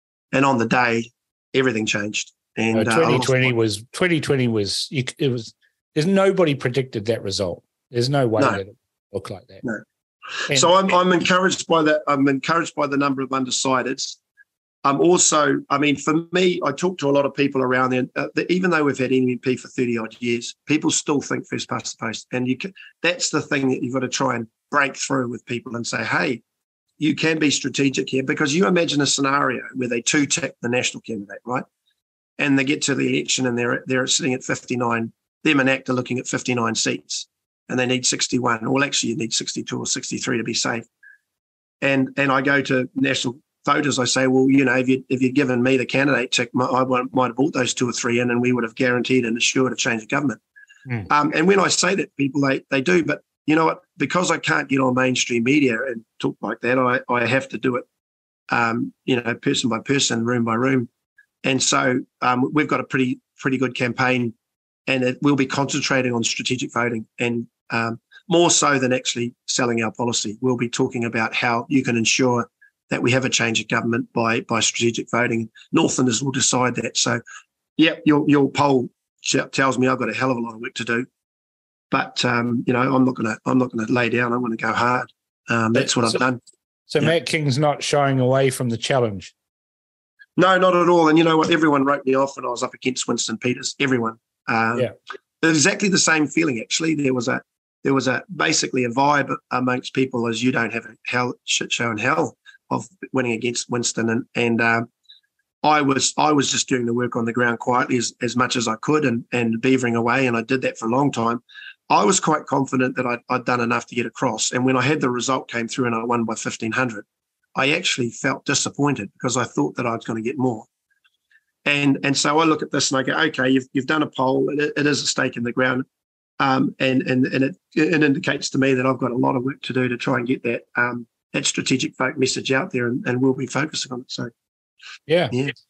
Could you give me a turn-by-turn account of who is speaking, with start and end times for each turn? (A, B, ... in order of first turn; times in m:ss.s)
0:00.3-0:03.5 A
0:02.7-0:09.6 B
0:10.5-0:14.2 A
0:10.5-0:10.7 B
0:14.8-0:26.4 A
0:27.0-0:31.6 A
0:32.4-0:40.8 A
0:41.8-0:50.4 A
0:51.1-0:57.8 A
0:58.5-1:00.9 A
1:01.4-1:04.3 A
1:04.9-1:17.2 A
1:17.8-1:21.1 A
1:21.9-1:26.4 A
1:25.8-1:26.2 B
1:26.9-1:29.3 B
1:30.4-1:44.9 A
1:45.6-1:57.0 A
1:57.6-2:00.7 A
2:01.6-2:05.8 A
2:06.4-2:14.3 A
2:15.1-2:15.4 B